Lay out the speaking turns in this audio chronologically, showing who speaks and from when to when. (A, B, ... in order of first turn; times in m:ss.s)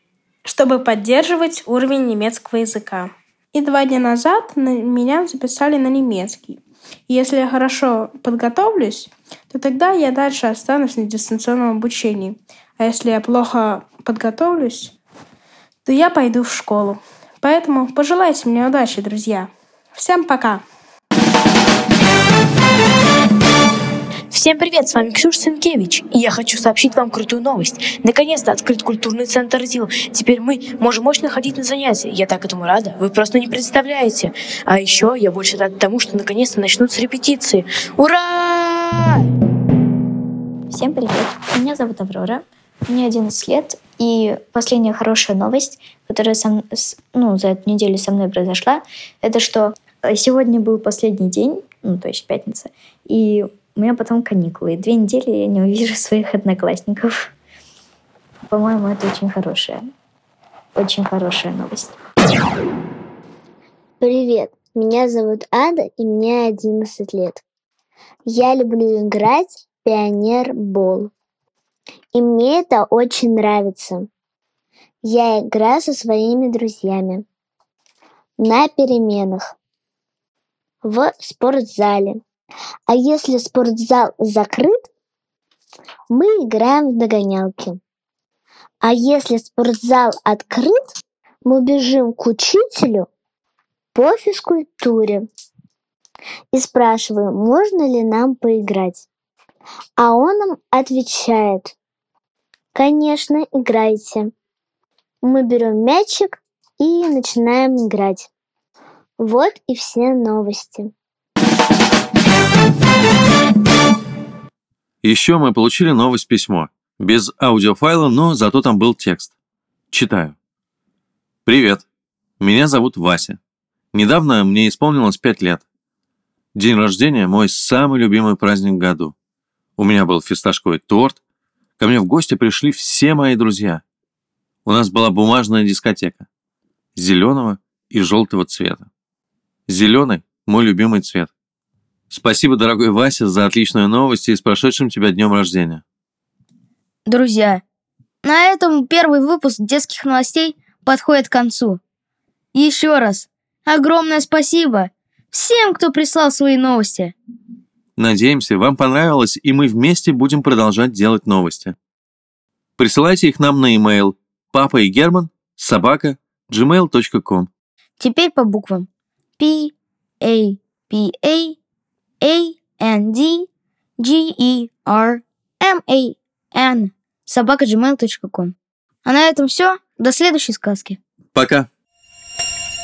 0:00.5-0:14.9 A
0:15.8-0:20.6 A
0:24.3-0:38.7 B
0:40.7-0:57.3 C
0:58.5-0:59.9 C
1:00.8-1:01.9 C
1:04.0-1:07.4 D
1:08.3-1:11.1 D
1:12.1-1:14.1 D
1:15.0-1:17.2 D
1:18.4-1:19.5 D
1:20.8-1:22.2 D
1:22.9-1:24.8 D
1:26.1-1:27.8 D
1:28.8-1:30.8 D
1:31.4-1:33.1 D
1:33.9-1:35.3 D
1:36.5-1:39.1 D
1:40.0-1:41.7 D
1:42.8-1:44.3 D
1:45.2-1:48.3 D
1:49.2-1:50.9 D
1:55.0-1:59.3 E
1:59.9-2:00.4 E
2:01.5-2:01.8 E
2:02.4-2:03.4 E
2:03.9-2:05.6 E
2:06.6-2:09.1 E
2:09.8-2:11.2 E
2:11.8-2:13.8 E
2:14.7-2:16.3 E
2:17.0-2:18.9 E
2:19.7-2:21.3 E
2:22.1-2:25.8 E
2:27.1-2:27.6 F
2:28.2-2:31.8 F
2:32.5-2:37.1 F
2:38.0-2:41.8 E
2:42.8-2:47.5 E
2:48.0-2:48.9 F
2:49.4-2:51.6 F
2:52.2-3:01.0 F
3:01.4-3:01.7 E